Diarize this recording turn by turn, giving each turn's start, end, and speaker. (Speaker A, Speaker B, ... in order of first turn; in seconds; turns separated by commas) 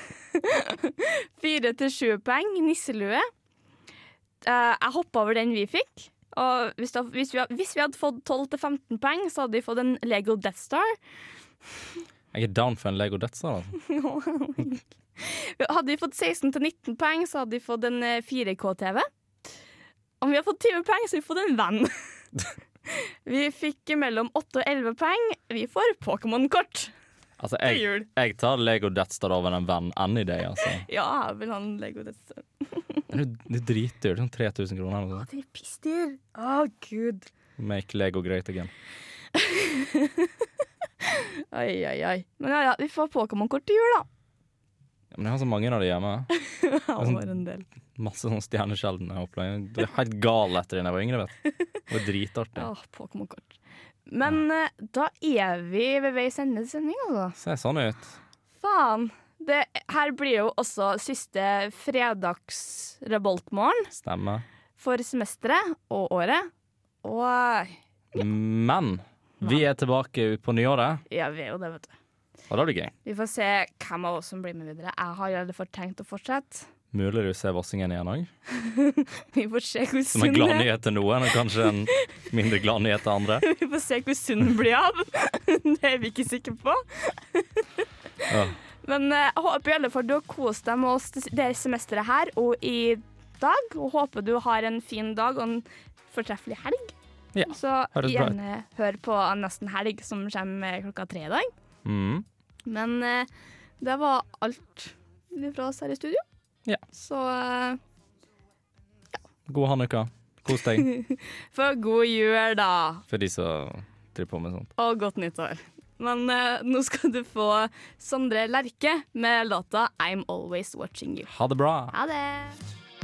Speaker A: 0.3-3.3, Speaker A: 4.4-10.9, Speaker B: 12.3-13.8, Speaker A: 13.8-19.1, Speaker A: 20.2-21.9, Speaker A: 22.9-26.9, Speaker B: 27.4-30.9, Speaker A: 27.6-28.1, Speaker A: 30.8-33.0, Speaker B: 33.1-35.3, Speaker A: 35.2-37.3, Speaker B: 37.6-38.7, Speaker A: 39.4-40.3, Speaker A: 41.0-44.1, Speaker B: 45.1-46.3, Speaker A: 46.3-47.6, Speaker B: 47.0-47.2, Speaker B: 48.0-51.4, Speaker B: 51.9-52.7, Speaker A: 52.6-53.6, Speaker A: 54.1-57.4, Speaker B: 57.4-58.2, Speaker A: 58.6-63.9, Speaker B: 63.9-64.4, Speaker A: 64.8-66.5, Speaker A: 67.0-68.2, Speaker B: 68.2-71.0, Speaker A: 71.1-71.9, Speaker B: 72.5-72.9, Speaker A: 73.0-76.7, Speaker B: 76.9-78.3, Speaker A: 78.6-80.7, Speaker B: 80.1-83.5, Speaker A: 83.4-87.7, Speaker B: 88.3-88.6, Speaker A: 88.8-97.0, Speaker B: 97.3-98.4, Speaker A: 97.5-101.5, Speaker B: 101.8-102.2, Speaker A: 102.7-103.3, Speaker A: 103.8-106.2, Speaker A: 106.9-107.8, Speaker B: 109.5-110.9, Speaker A: 110.8-113.0, Speaker B: 113.1-114.7, Speaker A: 114.8-121.3, Speaker B: 121.3-121.9, Speaker A: 121.9-122.6